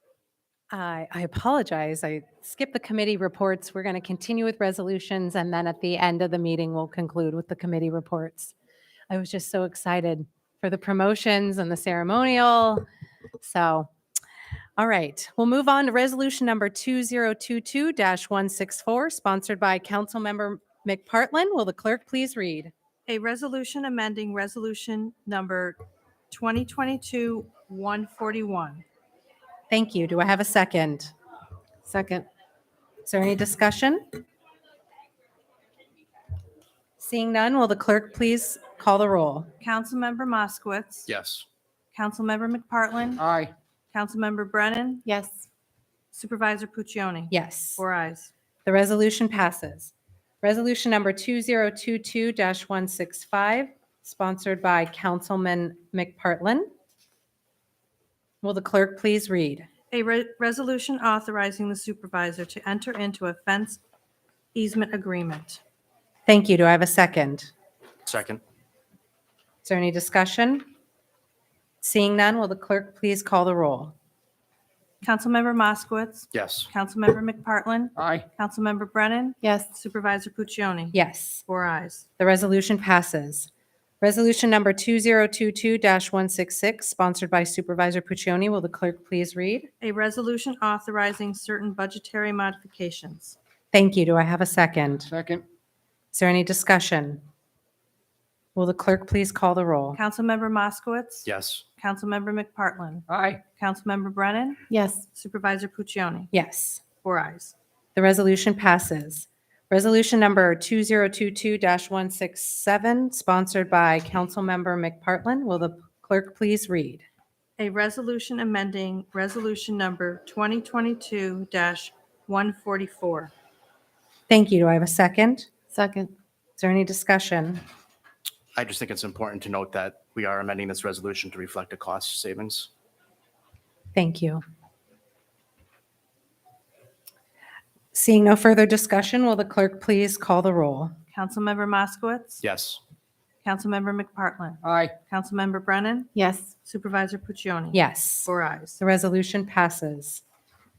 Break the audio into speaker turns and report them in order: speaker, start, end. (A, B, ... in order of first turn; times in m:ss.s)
0:00.7-0:08.5 A
0:09.1-0:12.8 A
0:13.4-0:13.9 A
0:14.8-0:22.7 A
0:23.1-0:25.8 B
0:26.3-0:28.8 B
0:29.7-0:31.1 A
0:31.8-0:32.3 C
0:33.0-0:34.2 A
0:37.0-0:39.5 A
0:39.6-0:41.1 B
0:41.1-0:41.4 D
0:41.9-0:43.2 B
0:43.2-0:43.5 D
0:43.9-0:45.0 B
0:45.0-0:45.4 C
0:46.1-0:48.3 B
0:47.3-0:47.8 A
0:48.6-0:56.7 A
0:58.4-0:59.7 A
0:59.9-1:03.8 B
1:04.5-1:05.6 B
1:06.2-1:07.5 A
1:08.0-1:08.4 D
1:09.6-1:10.6 A
1:11.8-1:13.9 A
1:15.0-1:22.0 B
1:16.3-1:16.7 D
1:18.0-1:18.2 D
1:19.4-1:19.7 C
1:20.9-1:21.4 A
1:22.2-1:23.5 A
1:24.0-1:29.7 A
1:29.8-1:33.4 B
1:33.7-1:35.1 A
1:35.1-1:35.4 D
1:36.1-1:37.2 A
1:38.5-1:40.0 A
1:39.9-1:46.3 B
1:41.2-1:41.6 D
1:43.1-1:43.4 D
1:44.7-1:45.0 C
1:46.3-1:46.8 A
1:47.0-1:47.5 B
1:47.9-1:57.0 A
1:57.6-2:03.3 B
2:04.3-2:05.5 A
2:05.7-2:06.1 C
2:06.6-2:07.6 A
2:08.5-2:12.7 D
2:13.9-2:14.4 A
2:17.9-2:20.9 A
2:21.1-2:22.4 B
2:22.4-2:22.8 D
2:23.4-2:26.1 B
2:24.6-2:24.9 D
2:26.1-2:26.5 C
2:26.6-2:28.8 B
2:27.7-2:30.2 A